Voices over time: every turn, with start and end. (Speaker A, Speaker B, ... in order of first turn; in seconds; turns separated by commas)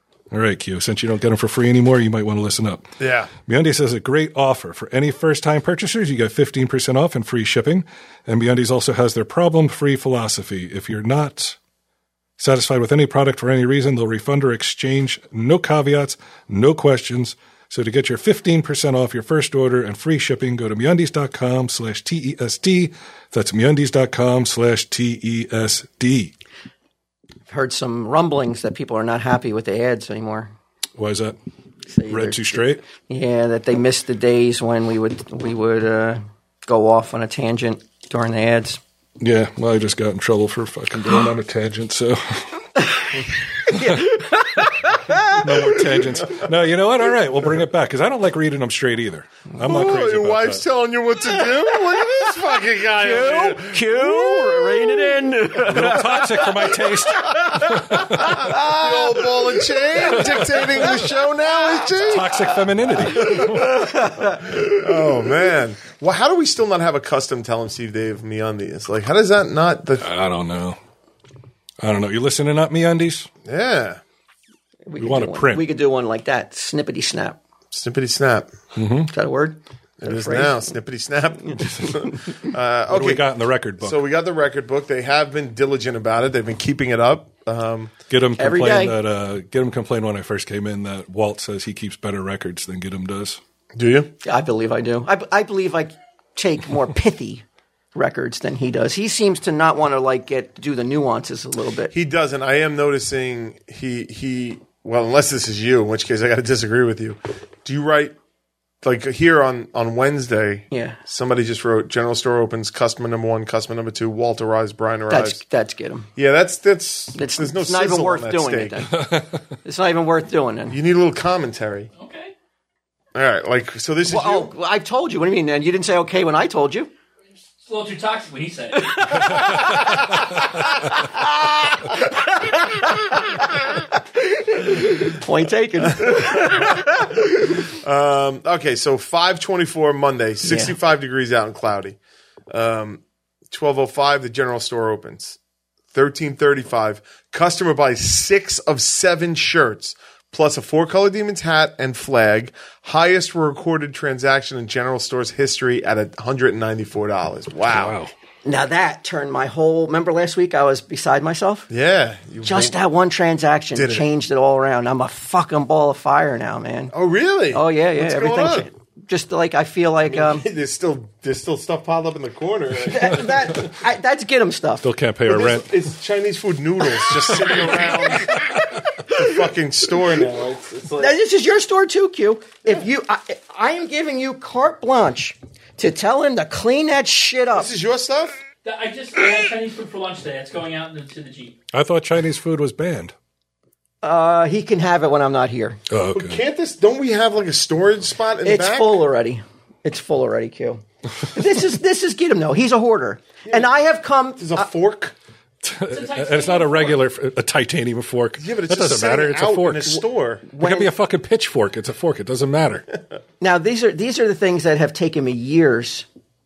Speaker A: 0.3-2.9, Speaker B: 3.0-3.3, Speaker A: 3.5-11.6, Speaker A: 12.4-26.3, Speaker C: 27.5-30.5, Speaker A: 31.0-31.4, Speaker C: 31.9-38.8, Speaker A: 32.1-32.8, Speaker A: 39.2-42.7, Speaker A: 43.6-44.1, Speaker C: 43.7-45.8, Speaker A: 45.1-50.6, Speaker B: 49.6-55.1, Speaker C: 51.4-52.3, Speaker C: 53.0-59.4, Speaker A: 55.6-58.4, Speaker B: 58.2-62.3, Speaker C: 60.0-60.4, Speaker A: 62.0-63.7, Speaker B: 63.1-70.1, Speaker C: 63.1-64.8, Speaker A: 70.0-70.8, Speaker A: 71.8-73.3, Speaker B: 73.4-74.0, Speaker C: 74.9-77.4, Speaker A: 75.0-75.7, Speaker B: 77.7-78.5, Speaker A: 78.8-79.1, Speaker C: 79.1-80.7, Speaker B: 80.0-83.2, Speaker A: 82.9-84.0, Speaker B: 83.8-87.9, Speaker A: 88.1-93.4, Speaker C: 88.4-88.9, Speaker B: 93.7-94.1, Speaker C: 94.2-101.9, Speaker B: 101.9-108.1, Speaker B: 108.8-115.4, Speaker C: 110.7-111.0, Speaker C: 115.1-116.1, Speaker B: 116.2-118.9, Speaker C: 117.1-120.8, Speaker A: 118.9-119.3, Speaker B: 120.7-121.9, Speaker D: 122.0-122.3, Speaker B: 123.1-124.5, Speaker C: 124.0-126.9, Speaker D: 127.6-129.5, Speaker C: 128.9-130.2, Speaker C: 130.9-137.1, Speaker B: 136.0-142.0, Speaker C: 140.4-140.7, Speaker B: 142.5-145.4, Speaker B: 145.9-158.0, Speaker A: 157.7-158.1, Speaker C: 158.4-161.7, Speaker B: 161.7-162.8, Speaker C: 162.4-166.9, Speaker B: 163.7-164.1, Speaker B: 166.9-168.7, Speaker C: 167.5-170.4, Speaker B: 170.1-173.7, Speaker C: 172.8-174.8, Speaker A: 174.8-175.7, Speaker B: 175.2-181.2, Speaker A: 177.3-178.3, Speaker C: 181.0-187.7, Speaker B: 187.5-188.4, Speaker D: 188.6-191.6, Speaker A: 191.7-193.1, Speaker C: 194.0-195.8, Speaker A: 195.9-196.4, Speaker B: 196.1-199.0, Speaker C: 198.4-204.7, Speaker B: 203.4-203.7, Speaker B: 204.4-205.1, Speaker A: 205.6-210.0, Speaker D: 205.9-207.0, Speaker B: 208.4-210.4, Speaker C: 210.5-210.9, Speaker A: 210.6-212.9, Speaker C: 213.4-216.1